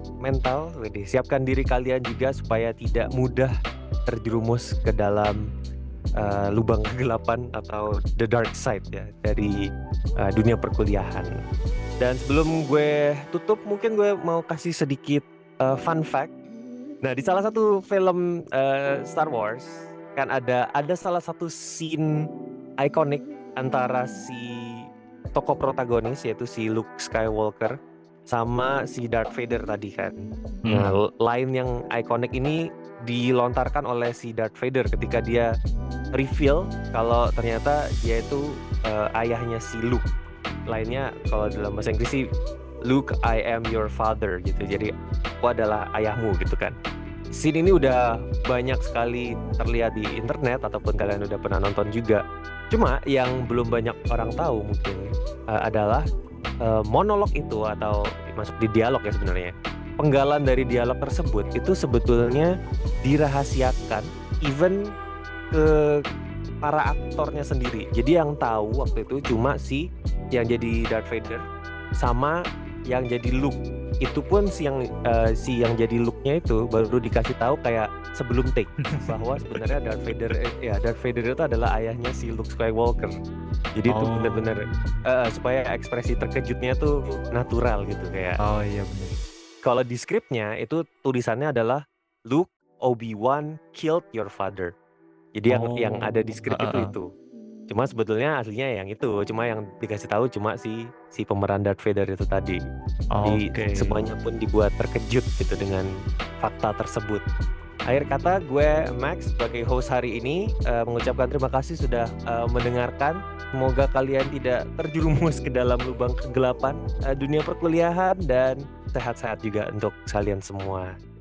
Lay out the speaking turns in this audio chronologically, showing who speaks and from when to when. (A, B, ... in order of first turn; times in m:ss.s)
0:00.2-0:03.5 A
0:04.1-0:05.4 A
0:06.2-0:09.6 A
0:10.2-0:11.3 A
0:12.0-0:16.3 A
0:17.0-0:22.1 A
0:22.8-0:24.5 A
0:25.3-0:27.7 A
0:28.3-0:35.5 A
0:30.6-0:30.9 B
0:36.2-0:40.0 A
0:40.7-0:42.2 A
0:42.9-0:46.8 A
0:47.4-0:56.0 A
0:56.6-1:02.5 A
1:03.0-1:04.8 A
1:05.5-1:06.0 A
1:06.6-1:09.8 A
1:10.3-1:11.4 A
1:12.0-1:12.4 A
1:12.9-1:23.1 A
1:19.0-1:19.6 B
1:23.8-1:28.4 A
1:23.9-1:25.0 B
1:28.4-1:29.2 B
1:29.6-1:34.7 A
1:35.4-1:37.1 A
1:35.5-1:36.9 B
1:37.7-1:42.6 A
1:43.1-1:44.0 B
1:43.2-1:45.9 A
1:46.4-1:47.2 A
1:47.9-2:00.9 A